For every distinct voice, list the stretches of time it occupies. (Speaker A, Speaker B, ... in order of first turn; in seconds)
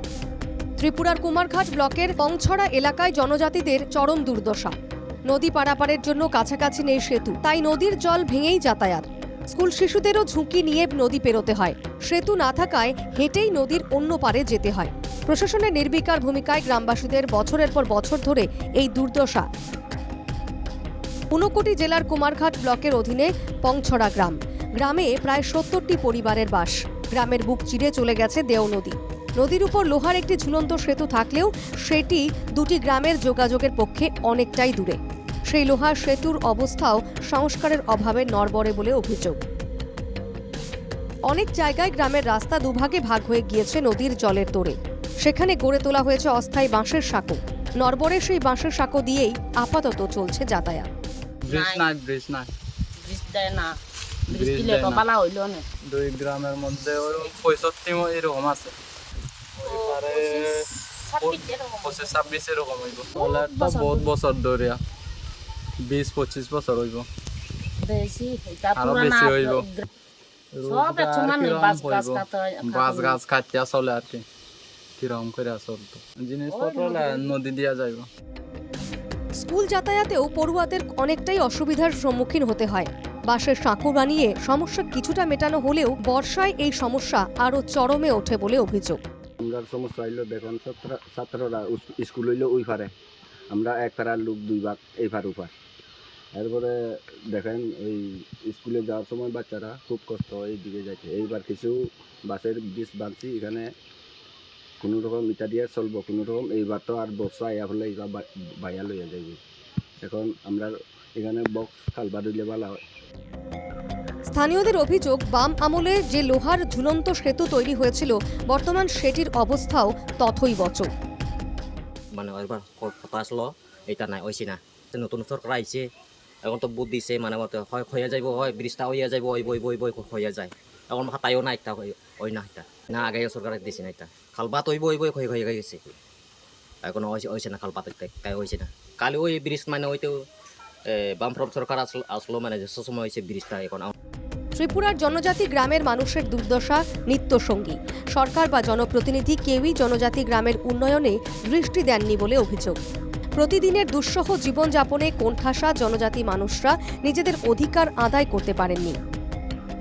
Speaker A: 0.8-4.7, 5.3-19.5, 21.3-35.0, 35.5-39.4, 41.3-50.9, 79.4-89.0, 114.3-120.9, 144.6-152.8, 153.4-159.0
Speaker B: 51.4-52.5, 54.3-55.0, 55.9-58.7, 59.6-64.8, 65.8-67.1, 68.7-69.7, 70.5-74.2, 75.0-78.1
Speaker C: 51.5-51.8, 53.0-53.7, 54.3-55.6, 57.0-57.3, 59.6-62.1, 63.1-64.1, 67.8-69.8, 70.7-73.2, 76.5-77.3
Speaker D: 89.4-92.9, 93.5-95.5, 96.3-96.7, 97.3-103.7, 104.8-109.4, 110.0-112.8
Speaker E: 122.2-125.8, 126.4-135.8, 136.8-140.1, 140.9-143.9